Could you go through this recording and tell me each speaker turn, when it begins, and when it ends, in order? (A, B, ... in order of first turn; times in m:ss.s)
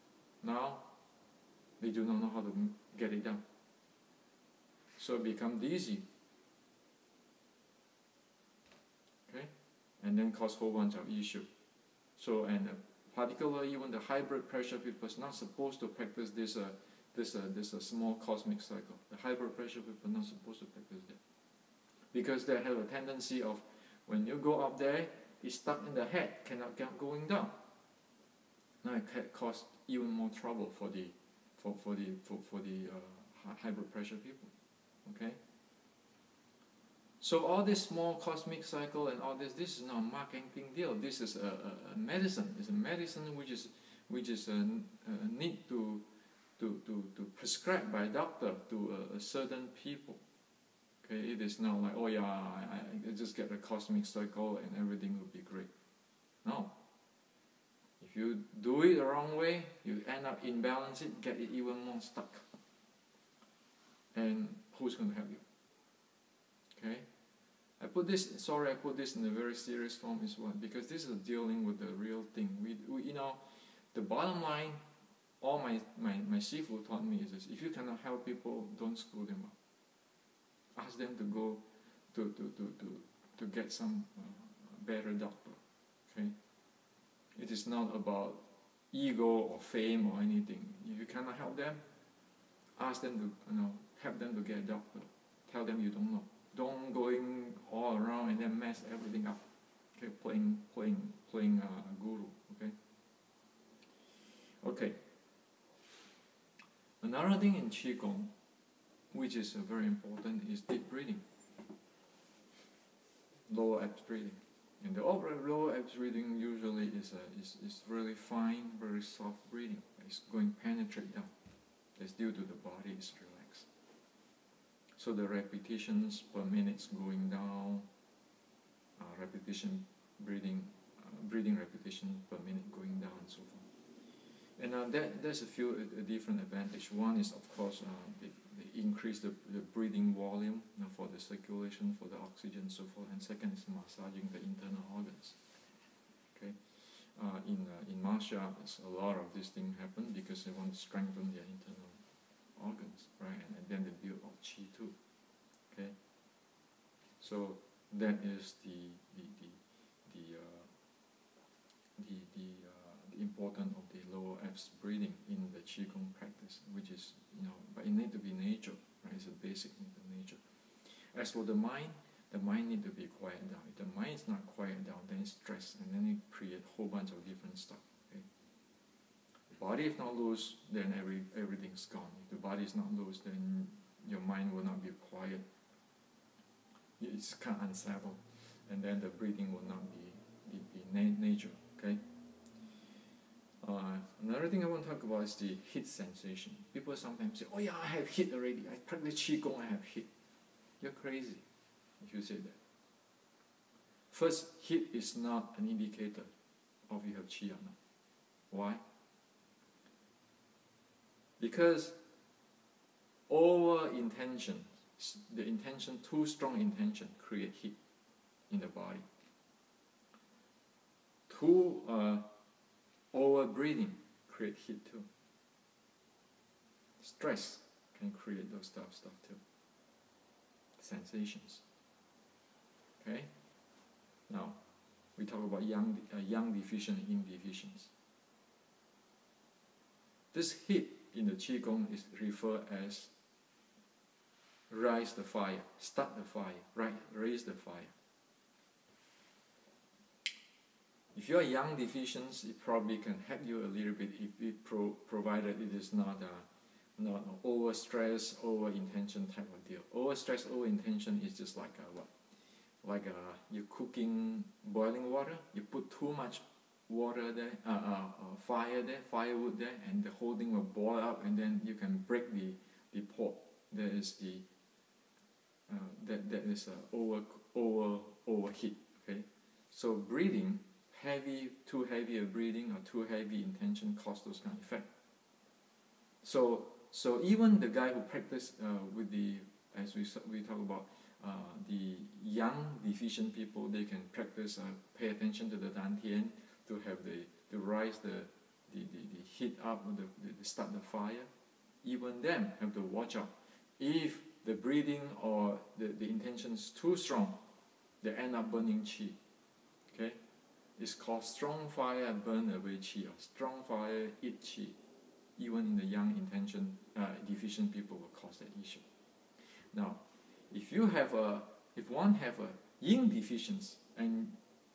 0:00.4-0:00.9 A
0:01.8-0:03.4 A
0:05.0-0:06.0 A
0:09.3-0:11.5 A
0:12.2-0:21.2 A
0:22.1-0:27.6 A
0:28.8-0:34.5 A
0:35.0-0:35.4 A
0:37.2-0:46.0 A
0:46.6-0:50.2 A
0:51.0-0:55.7 A
0:56.4-0:56.7 A
0:58.0-1:02.5 A
1:04.1-1:05.4 A
1:06.7-1:07.0 A
1:07.8-1:14.8 A
1:15.4-1:19.5 A
1:20.7-1:26.3 A
1:27.3-1:31.8 A
1:32.8-1:42.7 A
1:44.6-1:45.0 A
1:47.0-1:48.3 A
1:49.1-1:51.2 A
1:53.5-2:01.3 A
2:02.0-2:03.7 A
2:05.0-2:07.9 A
2:09.0-2:13.7 A
2:14.6-2:25.4 A
2:26.3-2:34.9 A
2:35.7-2:36.0 A
2:37.2-2:40.7 A
2:42.0-2:58.2 A
2:59.5-3:05.4 A
3:07.0-3:12.0 A
3:13.6-3:20.1 A
3:20.8-3:21.4 A
3:22.0-3:22.6 A
3:24.1-3:26.3 A
3:26.9-3:27.8 A
3:28.5-3:28.8 A
3:31.4-3:32.0 A
3:33.3-3:37.8 A
3:38.5-3:39.0 A
3:41.3-3:42.3 A
3:43.1-3:45.1 A
3:47.0-3:49.4 A
3:50.8-3:51.6 A
3:53.0-3:53.3 A
3:54.3-3:54.6 A
3:55.2-3:57.9 A
4:00.3-4:03.1 A
4:04.7-4:07.9 A
4:11.1-4:22.1 A
4:22.8-4:34.4 A
4:35.7-4:44.9 A
4:46.2-5:01.3 A
5:01.8-5:07.4 A
5:08.0-5:09.2 A
5:09.9-5:10.2 A
5:10.8-5:14.8 A
5:15.4-5:18.8 A
5:19.4-5:24.4 A